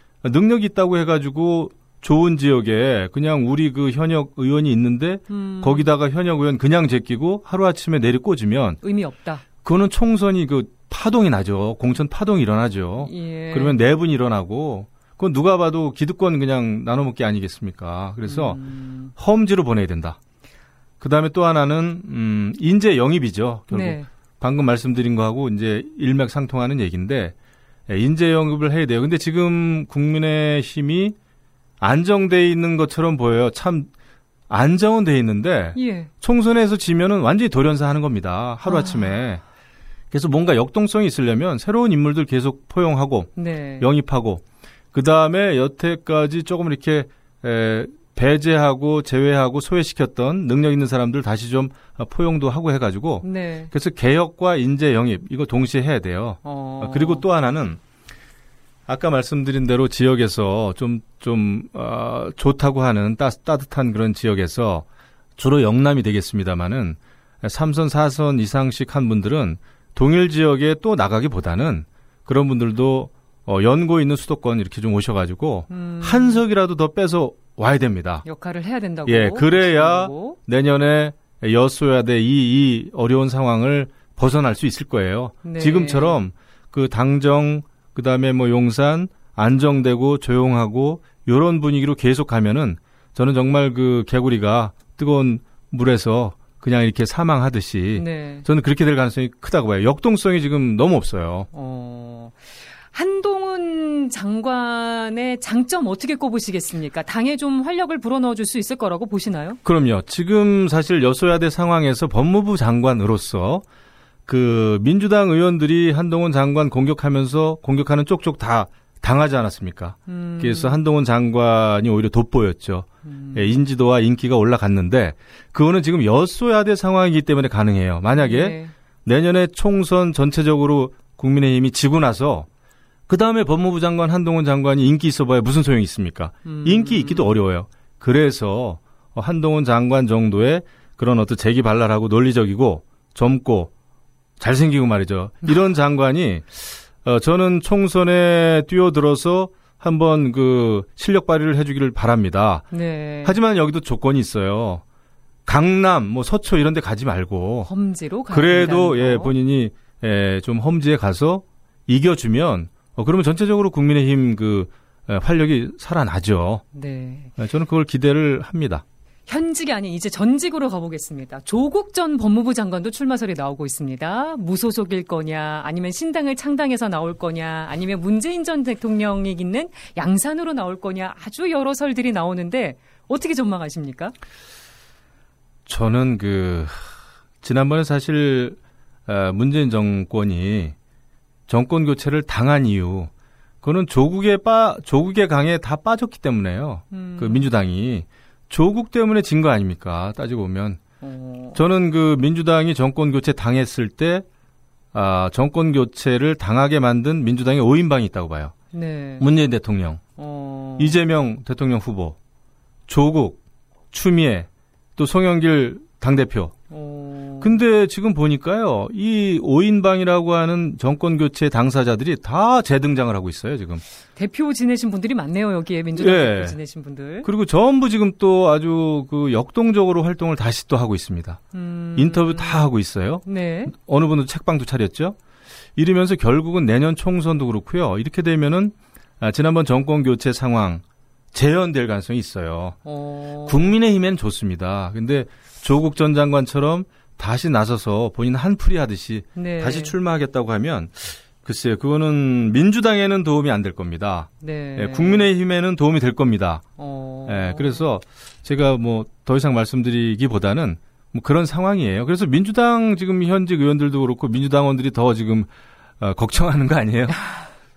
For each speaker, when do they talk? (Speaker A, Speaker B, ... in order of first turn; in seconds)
Speaker A: 0.2-8.8, 9.6-20.2, 21.0-27.3, 27.9-31.1, 31.8-33.9, 34.5-39.4, 40.1-57.8, 58.9-64.8, 65.4-78.2, 79.0-101.5, 109.6-113.6, 114.3-132.5, 133.1-143.7, 144.4-152.7, 153.2-154.8, 155.4-157.7, 158.3-166.6, 167.4-168.8, 185.7-186.8, 187.4-190.7, 191.5-193.1, 193.6-200.8, 201.5-204.2, 204.9-208.5, 209.2-210.0, 210.8-212.2, 212.9-216.5, 217.4-223.8, 226.0-226.6, 227.2-231.4, 231.9-235.2, 235.8-242.8, 243.4-256.6, 257.2-265.5, 266.0-267.2
Speaker B: 5.3-5.9, 8.8-9.4, 13.0-13.8, 18.2-19.1, 23.7-24.1, 35.7-36.1, 38.7-39.1, 43.4-43.9, 53.2-53.7, 56.4-57.2, 75.7-76.4, 78.2-80.4, 85.4-86.2, 97.9-98.4, 101.5-102.4, 102.9-109.6, 120.1-120.8, 123.0-123.6, 128.2-128.7, 136.4-137.3, 152.7-153.4, 157.7-159.3, 166.7-167.3, 169.3-184.1, 196.9-197.5, 201.0-201.6, 208.7-209.2, 210.2-210.9, 216.7-217.6, 224.2-227.3, 231.5-232.7, 233.2-233.7, 242.8-243.7, 249.3-249.9, 254.4-255.3, 256.8-257.8